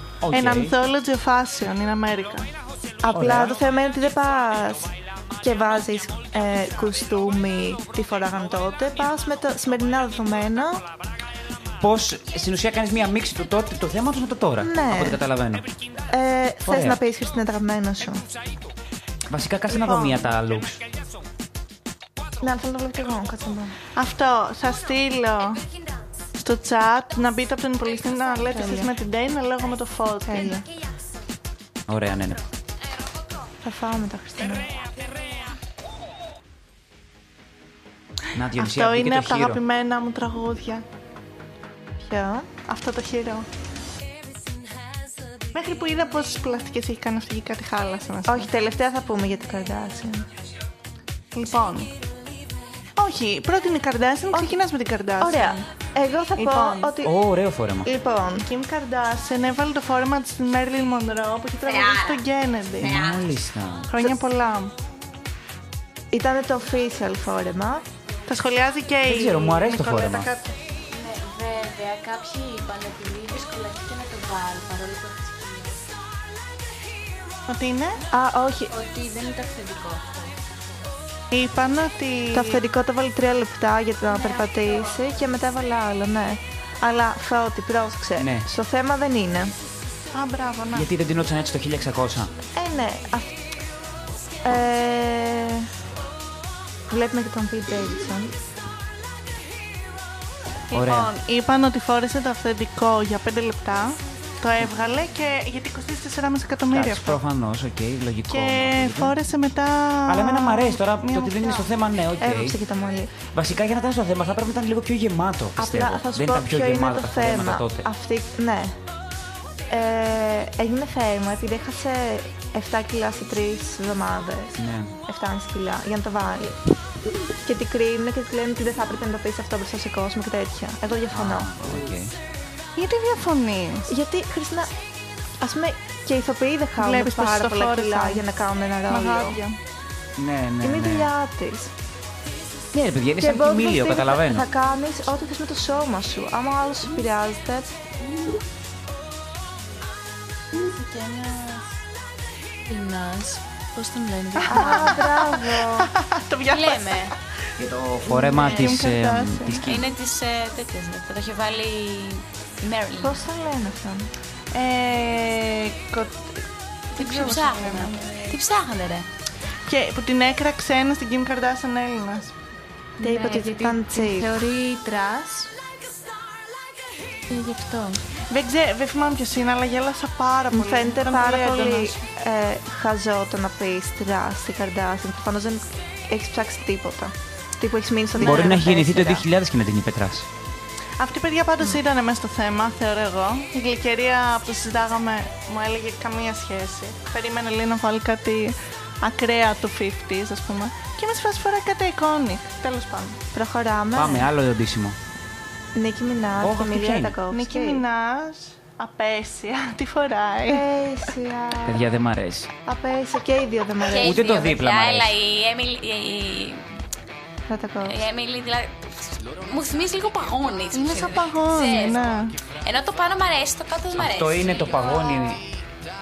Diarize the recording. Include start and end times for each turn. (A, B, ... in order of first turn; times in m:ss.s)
0:00.2-0:00.7 A
0:00.3-0:02.5 B
0:03.0-0:10.8 C
0:03.1-0:03.6 A
0:11.8-0:15.7 A
0:14.6-0:15.2 C
0:16.1-0:18.2 C
0:16.7-0:17.0 A
0:19.3-0:20.8 A
0:19.7-0:20.3 B
0:22.4-0:23.8 C
0:24.0-0:25.6 B
0:26.4-0:30.6 B
0:28.4-0:28.9 C
0:30.3-0:30.6 C
0:31.9-0:32.4 A
0:33.6-0:34.7 C
0:38.3-0:39.6 A
0:38.6-0:40.8 B
0:42.0-0:42.5 C
0:42.7-0:43.5 B
0:45.5-0:48.5 B
0:48.3-0:50.3 C
0:51.3-0:51.9 B
0:53.0-0:55.6 B
0:55.2-0:57.2 C
0:56.4-0:57.0 B
0:57.0-0:57.9 A
0:57.8-0:58.5 C
0:58.4-1:03.0 B
1:01.6-1:02.2 D
1:02.8-1:03.3 D
1:02.8-1:04.1 A
1:03.9-1:04.7 B
1:06.1-1:07.8 C
1:08.3-1:10.5 B
1:09.0-1:10.3 A
1:11.0-1:15.7 E
1:17.5-1:18.0 B
1:18.1-1:18.7 C
1:18.7-1:20.3 E
1:21.3-1:22.6 B
1:22.3-1:29.6 C
1:28.2-1:28.5 A
1:30.1-1:30.9 B
1:30.7-1:32.3 A
1:32.5-1:33.4 C
1:34.4-1:35.7 C
1:36.9-1:38.3 C
1:40.7-1:47.2 B
1:40.7-1:41.1 A
1:46.7-1:49.2 A
1:48.3-1:51.7 B
1:50.1-1:52.6 A
1:52.2-1:53.1 C
1:53.3-1:57.9 A
1:55.6-1:58.8 C
1:59.7-2:06.6 C
2:04.6-2:05.0 A
2:07.4-2:11.5 C
2:11.1-2:12.1 A
2:12.8-2:13.9 B
2:13.9-2:14.7 C
2:15.4-2:19.4 C
2:16.8-2:18.2 B
2:18.9-2:19.6 B
2:20.2-2:21.1 A
2:20.6-2:21.7 C
2:22.7-2:24.5 A
2:23.2-2:27.7 C
2:34.1-2:34.4 E
2:34.4-2:37.1 B
2:34.5-2:35.9 C
2:36.5-2:37.2 D
2:37.6-2:39.9 A
2:38.1-2:39.6 B
2:39.6-2:43.2 D
2:43.0-2:44.1 C
2:44.5-2:46.4 B
2:46.9-2:49.1 D
2:47.0-2:48.2 B
2:49.7-2:52.3 B
2:53.0-2:55.5 E
2:53.0-2:54.4 C
2:57.4-2:58.0 E
2:58.3-3:02.0 B
3:00.5-3:09.2 C
3:08.2-3:10.3 A
3:08.2-3:08.5 B
3:11.0-3:23.2 B
3:23.3-3:24.3 C
3:23.9-3:25.0 A
3:25.8-3:27.8 C
3:26.4-3:27.2 A
3:27.3-3:30.7 B
3:30.5-3:31.9 C
3:31.6-3:32.5 A
3:32.7-3:34.3 C
3:33.9-3:36.6 D
3:34.0-3:35.2 A
3:37.5-3:38.0 C
3:37.9-3:45.4 D
3:40.7-3:42.3 B
3:44.0-3:45.5 A